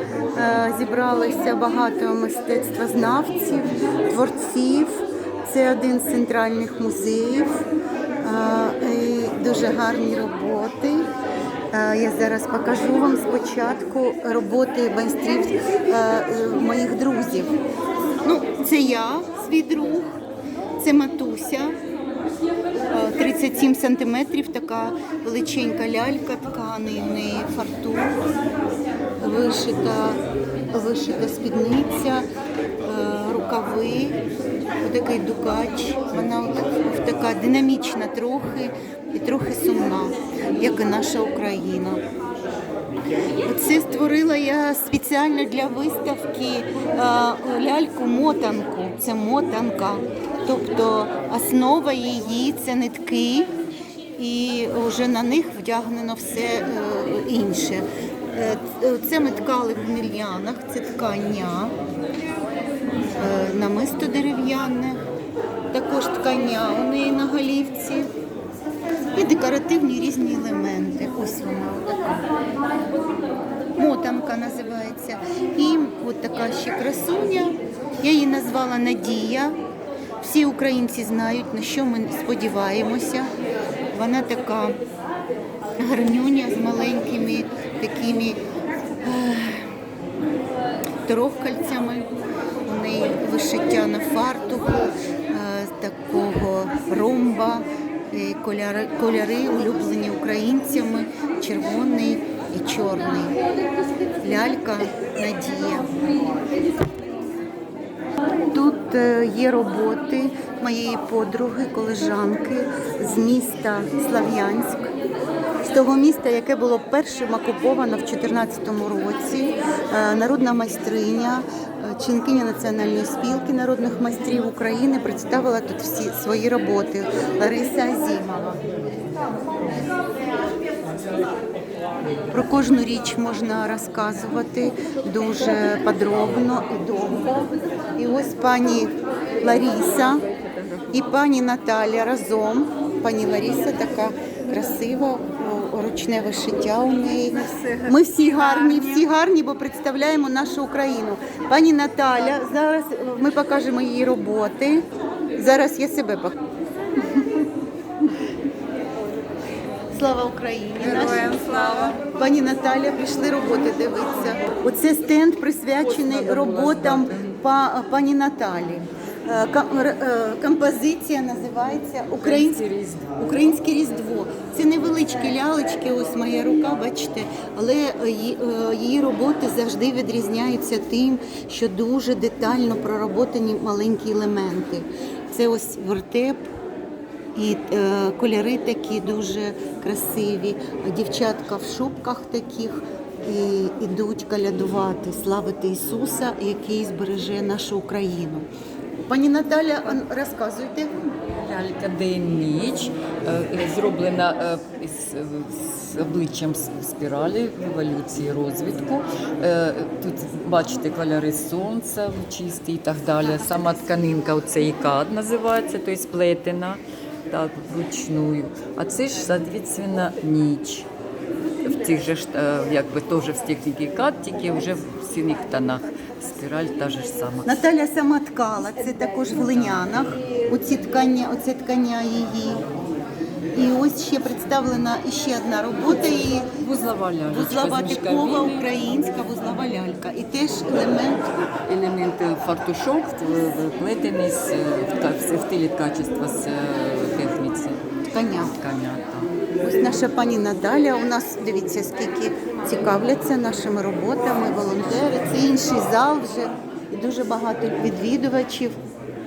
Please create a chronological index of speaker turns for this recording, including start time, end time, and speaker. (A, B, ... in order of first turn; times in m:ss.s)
0:00.4-0:07.6 A
0:08.2-0:11.1 A
0:11.7-0:17.6 A
0:18.2-0:20.1 A
0:20.8-0:21.7 A
0:22.9-0:28.1 A
0:29.2-0:30.2 A
0:30.7-0:32.3 A
0:32.8-0:34.2 A
0:34.8-0:42.0 A
0:43.4-0:53.5 A
0:54.2-1:01.7 A
1:03.2-1:05.0 A
1:05.7-1:08.1 A
1:09.1-1:12.2 A
1:13.8-1:19.6 A
1:20.2-1:23.3 A
1:23.9-1:24.8 A
1:25.8-1:28.4 A
1:29.0-1:29.7 A
1:31.0-1:32.1 A
1:32.6-1:43.3 A
1:44.2-1:45.9 A
1:48.5-1:54.9 A
1:55.6-2:08.6 A
2:12.3-2:20.2 A
2:20.9-2:34.8 A
2:35.4-2:36.4 A
2:39.9-3:06.4 A
2:41.0-2:42.0 B
2:45.8-2:47.3 B
2:52.2-2:53.1 B
3:07.3-3:18.5 A
3:19.1-3:20.9 A
3:21.3-3:40.9 B
3:41.6-3:47.5 B
3:47.4-3:52.6 A
3:53.5-3:56.5 A
3:56.5-3:58.7 B
3:57.3-4:01.2 A
4:01.6-4:07.8 B
4:08.1-4:08.5 A
4:08.4-4:09.3 B
4:09.6-4:18.8 A